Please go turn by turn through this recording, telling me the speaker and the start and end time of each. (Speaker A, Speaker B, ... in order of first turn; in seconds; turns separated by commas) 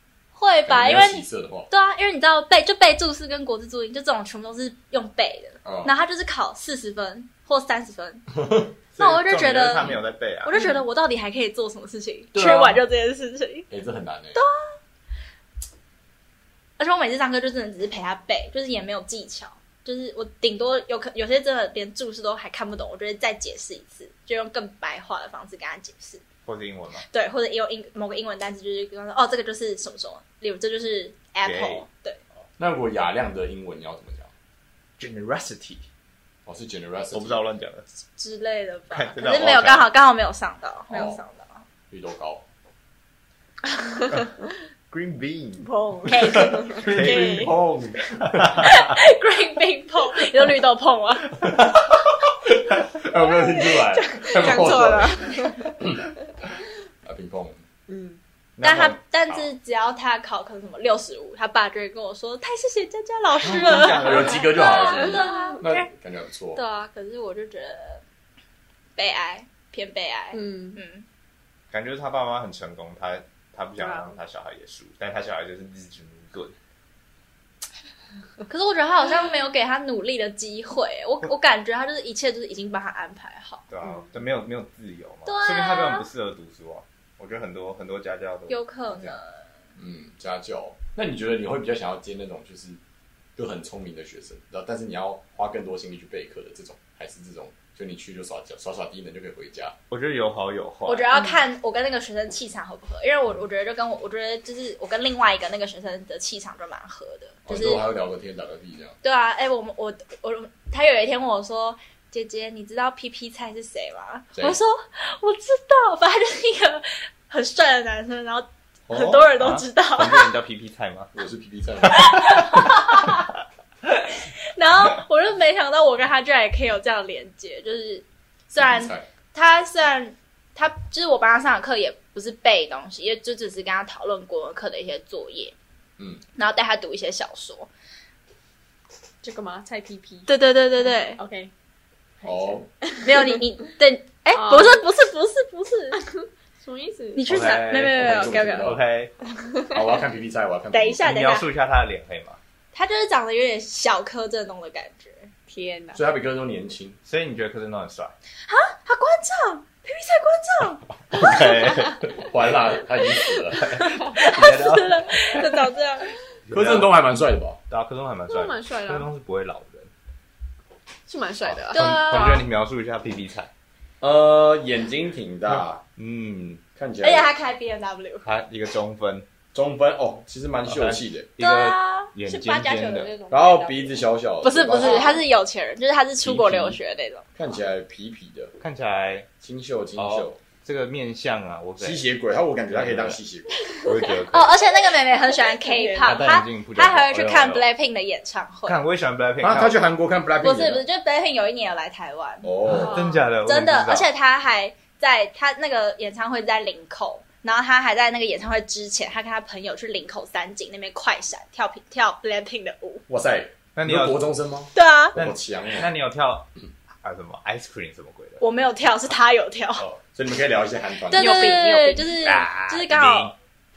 Speaker A: 0.3-8.3, Speaker B: 0.7-1.7, Speaker B: 5.6-5.9, Speaker B: 8.3-8.7, Speaker C: 8.9-10.6, Speaker A: 9.0-9.9, Speaker A: 10.4-13.7, Speaker B: 12.3-12.8, Speaker B: 13.7-14.4, Speaker A: 16.8-26.2, Speaker C: 26.4-27.0, Speaker A: 27.1-32.2, Speaker C: 31.4-31.8, Speaker B: 32.6-34.3, Speaker C: 35.0-35.9, Speaker B: 36.5-37.4, Speaker C: 37.1-37.9, Speaker A: 38.2-41.6, Speaker C: 38.9-39.9, Speaker B: 40.9-41.2, Speaker B: 41.9-42.5, Speaker C: 44.9-45.7, Speaker D: 45.6-46.8, Speaker A: 46.0-47.5, Speaker B: 46.2-48.7, Speaker C: 46.8-47.5, Speaker C: 48.2-49.0, Speaker A: 48.6-51.4, Speaker B: 51.4-56.0, Speaker D: 53.2-55.8, Speaker B: 57.1-57.6, Speaker D: 57.9-58.2, Speaker C: 58.6-59.5, Speaker A: 58.6-65.9, Speaker C: 63.4-64.5, Speaker B: 63.8-66.6, Speaker D: 64.7-65.6, Speaker A: 66.5-68.0, Speaker A: 69.0-71.0, Speaker D: 70.3-70.8, Speaker C: 71.7-76.5, Speaker D: 73.8-74.1, Speaker A: 78.5-83.6, Speaker C: 83.7-89.2, Speaker A: 85.3-86.1, Speaker A: 88.5-89.5, Speaker B: 89.8-92.8, Speaker B: 93.4-99.8, Speaker C: 99.9-101.2, Speaker A: 100.9-107.8, Speaker D: 101.1-101.4, Speaker B: 107.5-109.0, Speaker A: 109.0-120.3, Speaker B: 118.9-119.3, Speaker C: 119.4-121.1, Speaker B: 121.1-122.3, Speaker C: 122.0-122.3, Speaker A: 122.0-123.3, Speaker A: 124.1-135.6, Speaker B: 128.6-129.1, Speaker A: 136.4-137.7, Speaker D: 139.2-140.3, Speaker A: 140.3-141.2, Speaker D: 141.2-141.5, Speaker B: 142.2-142.7, Speaker D: 142.2-143.3, Speaker A: 143.0-146.0, Speaker D: 144.3-144.8, Speaker D: 146.0-147.2, Speaker A: 147.2-148.7, Speaker C: 147.3-149.1, Speaker B: 147.3-148.8, Speaker B: 149.7-151.1, Speaker A: 150.7-151.5, Speaker C: 151.0-152.4, Speaker A: 152.7-155.3, Speaker D: 155.5-156.0, Speaker B: 155.9-157.0, Speaker C: 157.1-158.1, Speaker A: 158.5-160.8, Speaker C: 161.1-162.1, Speaker B: 162.0-163.7, Speaker C: 163.6-165.6, Speaker A: 163.6-166.1, Speaker C: 166.5-166.9, Speaker B: 166.5-167.6, Speaker C: 167.7-169.9, Speaker D: 168.3-169.1, Speaker D: 171.1-172.4, Speaker C: 171.5-173.5, Speaker A: 171.7-172.4, Speaker B: 174.0-175.8, Speaker C: 175.5-176.6, Speaker B: 176.8-177.3, Speaker A: 177.0-178.3, Speaker C: 178.2-179.3, Speaker B: 179.5-181.3, Speaker C: 180.7-183.1, Speaker A: 181.4-182.2, Speaker D: 182.2-184.1, Speaker B: 183.3-185.2, Speaker A: 184.4-187.3, Speaker D: 184.7-185.2, Speaker B: 186.2-186.8, Speaker B: 187.4-188.6, Speaker C: 188.6-189.3, Speaker B: 189.4-190.4, Speaker C: 190.0-192.0, Speaker B: 191.8-193.6, Speaker C: 192.7-193.2, Speaker C: 193.8-194.6, Speaker A: 194.3-198.8, Speaker D: 195.6-196.1, Speaker C: 196.0-197.7, Speaker B: 196.1-196.4, Speaker C: 198.7-199.9, Speaker B: 199.4-200.8, Speaker A: 200.4-202.5, Speaker B: 202.4-203.0, Speaker C: 202.7-204.1, Speaker D: 202.7-203.2, Speaker A: 203.4-213.0, Speaker B: 213.1-215.9, Speaker C: 213.8-214.2, Speaker A: 214.8-215.2, Speaker C: 215.2-216.5, Speaker C: 217.0-218.4, Speaker A: 218.4-219.8, Speaker B: 219.8-221.6, Speaker A: 221.1-223.3, Speaker D: 221.1-222.2, Speaker C: 222.2-223.3